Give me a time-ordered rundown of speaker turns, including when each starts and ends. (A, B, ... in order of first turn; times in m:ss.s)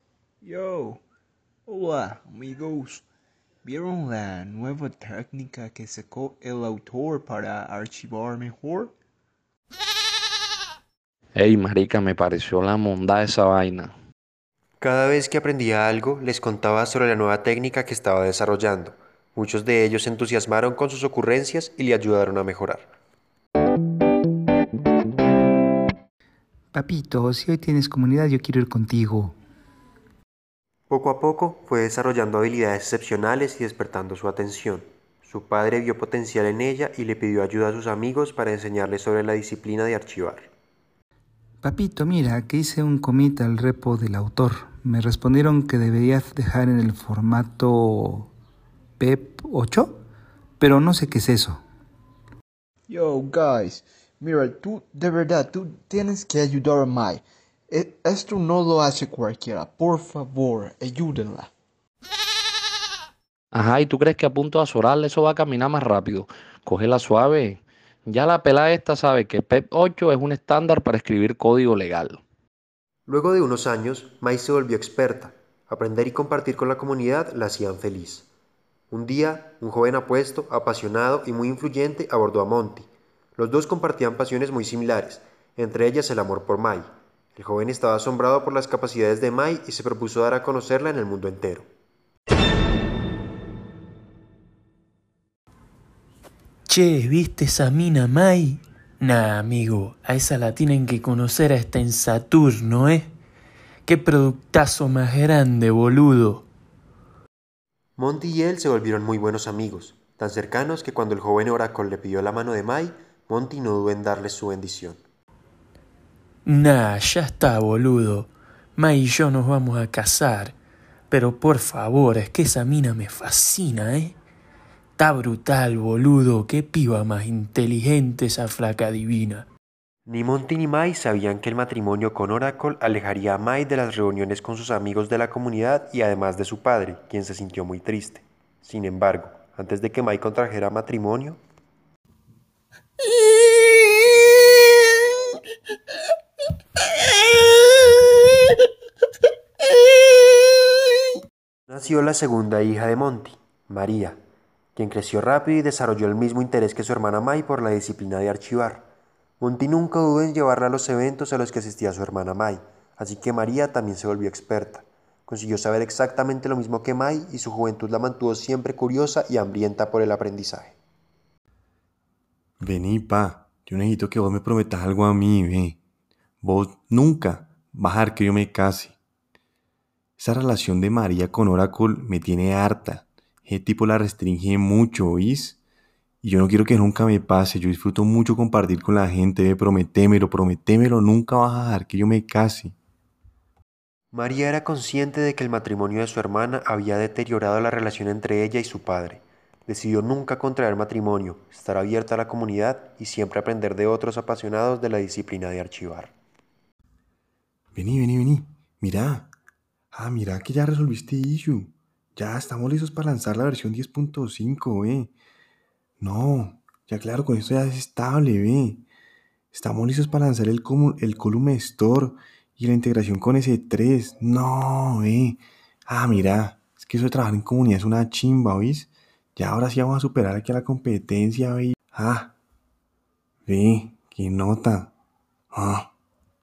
0:00.4-0:01.0 A
0:01.7-0:03.0 A
0:03.6-0:08.9 A
0:11.4-0:13.9 B
0:14.8-0:22.9 C
0:26.7-0:29.4 D
0:30.9-0:40.5 C
0:41.6-0:48.3 D
0:49.0-0:50.0 D
0:50.6-0:51.6 D
0:52.9-1:01.5 A
1:03.5-1:12.2 B
1:13.1-1:18.3 C
1:18.9-1:31.7 C
1:36.7-1:43.1 E
1:43.9-1:46.4 E
1:48.0-1:55.0 C
1:56.5-2:00.5 E
2:01.1-2:04.2 E
2:05.0-2:09.5 E
2:10.1-2:21.4 C
2:23.1-2:25.0 A
2:29.7-2:30.7 A
2:31.7-2:34.2 C
2:34.8-2:38.9 C
2:39.4-2:50.8 C
2:52.6-2:55.8 F
2:56.4-2:59.0 F
3:00.2-3:05.6 F
3:06.2-3:12.8 F
3:14.1-3:26.1 C
3:27.8-3:29.3 F
3:29.9-3:35.1 F
3:36.0-3:38.8 F
3:39.5-3:52.3 F
3:53.5-3:54.9 F
3:55.5-3:55.9 F